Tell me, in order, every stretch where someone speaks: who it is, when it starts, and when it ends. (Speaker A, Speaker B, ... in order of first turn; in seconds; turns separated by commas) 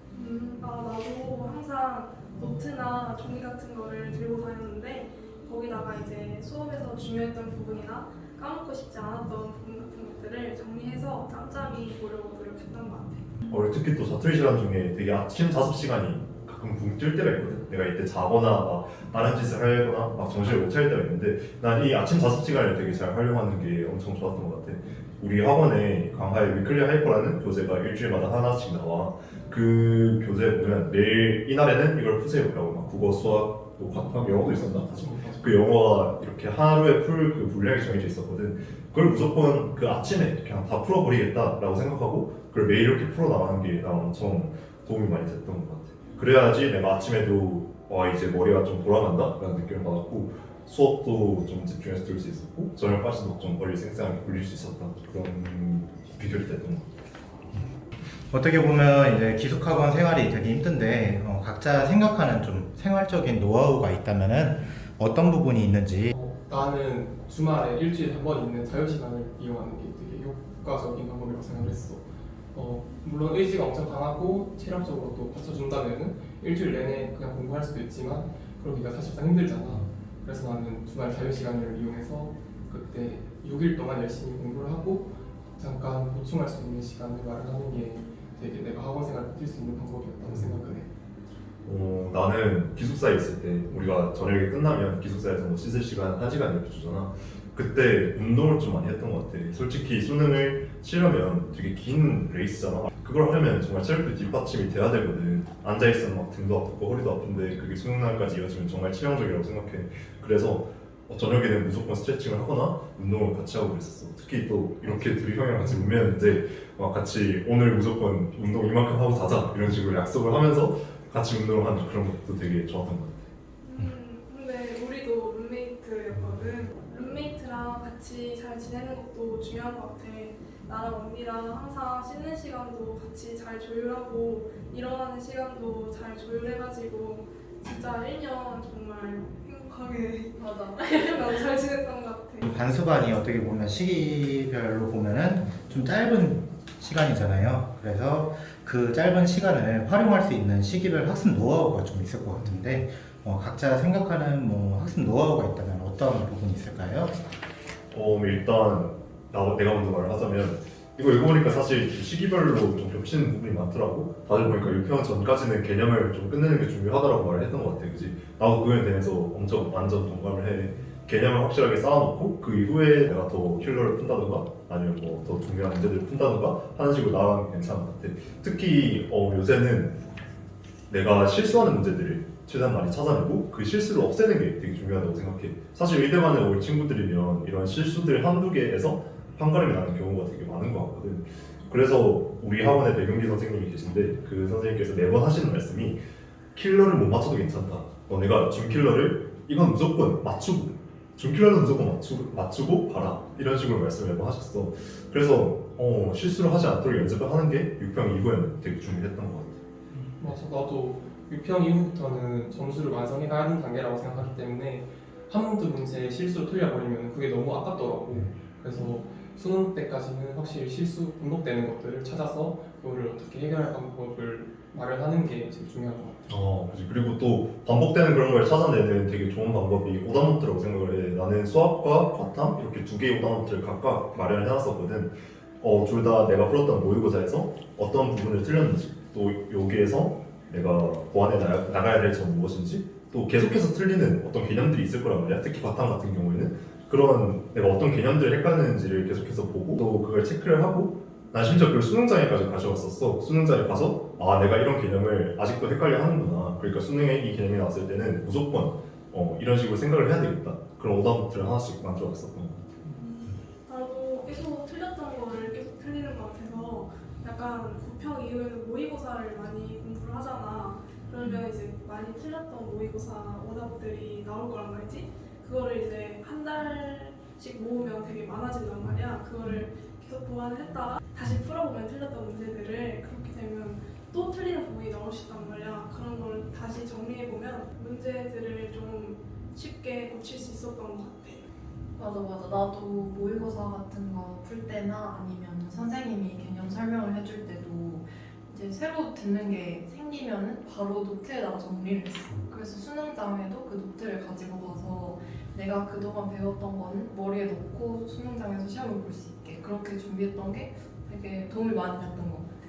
Speaker A: 0.1-13.3, Speaker B: 13.5-56.9, Speaker C: 34.3-35.5, Speaker D: 58.3-66.2, Speaker C: 66.1-90.9, Speaker B: 91.7-123.3, Speaker A: 123.6-142.5, Speaker D: 142.4-157.2, Speaker B: 157.9-180.0, Speaker B: 180.9-196.0, Speaker B: 196.6-209.6, Speaker C: 210.2-226.2, Speaker B: 226.3-262.7, Speaker A: 263.0-291.4, Speaker E: 292.0-312.5